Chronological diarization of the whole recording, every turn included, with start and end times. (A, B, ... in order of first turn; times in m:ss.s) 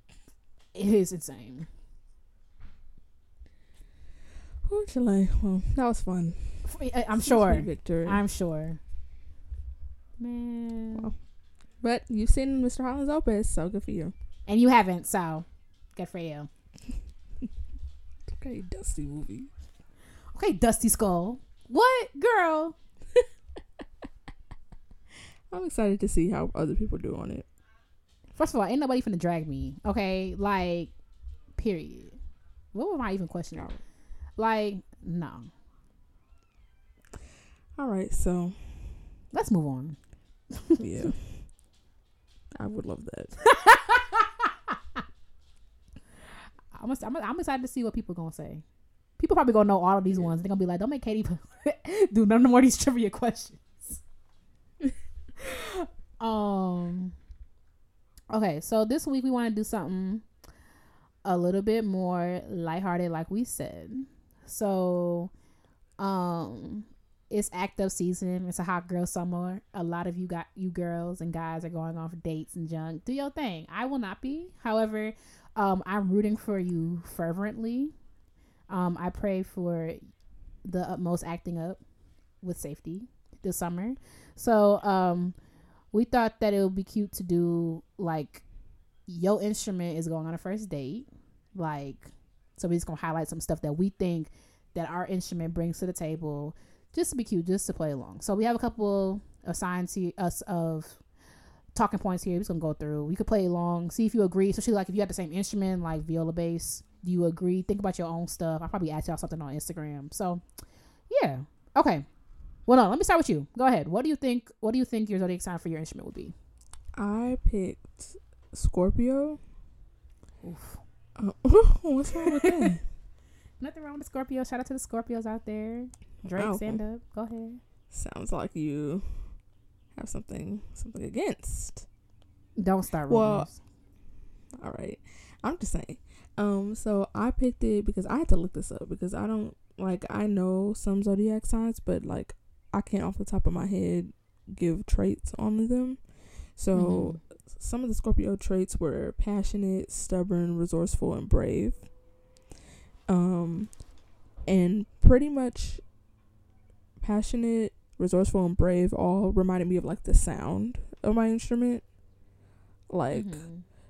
0:00.7-0:01.7 A
0:04.6-0:08.2 B
0:06.6-0:08.8 A
0:10.2-0:11.1 A
0:11.8-0:14.1 B
0:14.5-0:16.5 A
0:18.3-0:19.5 B
0:20.4-0:22.8 A
0:25.5-0:27.5 B
0:28.4-0:31.0 A
0:31.6-0:32.2 A
0:32.7-0:33.7 A
0:33.6-0:33.8 B
0:34.4-0:35.5 A
0:37.8-0:39.1 B
0:39.3-0:40.0 A
0:40.5-0:41.1 A
0:40.8-0:41.5 B
0:42.5-0:43.4 B
0:43.4-0:45.0 A
0:46.7-0:48.6 A
0:49.2-0:54.0 A
0:55.5-0:57.2 A
0:58.3-1:00.2 A
1:01.2-1:05.3 A
1:06.0-1:17.9 A
1:18.7-1:20.0 A
1:20.6-1:21.8 A
1:22.4-1:25.4 A
1:25.9-1:28.4 A
1:29.1-1:41.0 A
1:41.8-1:50.4 A
1:51.1-1:52.0 A
1:52.7-1:56.4 A
1:57.0-1:59.4 B
2:00.4-2:00.8 A
2:01.2-2:02.8 B
2:02.2-2:02.8 A
2:03.6-2:07.6 A
2:06.3-2:06.8 B
2:07.9-2:09.4 B
2:10.0-2:11.9 B
2:12.6-2:13.6 A
2:13.1-2:13.5 B
2:14.6-2:31.8 B
2:26.7-2:27.2 A
2:33.1-2:33.8 B
2:34.5-2:35.8 B
2:37.0-2:41.8 B
2:42.9-2:43.5 B
2:43.1-2:43.6 A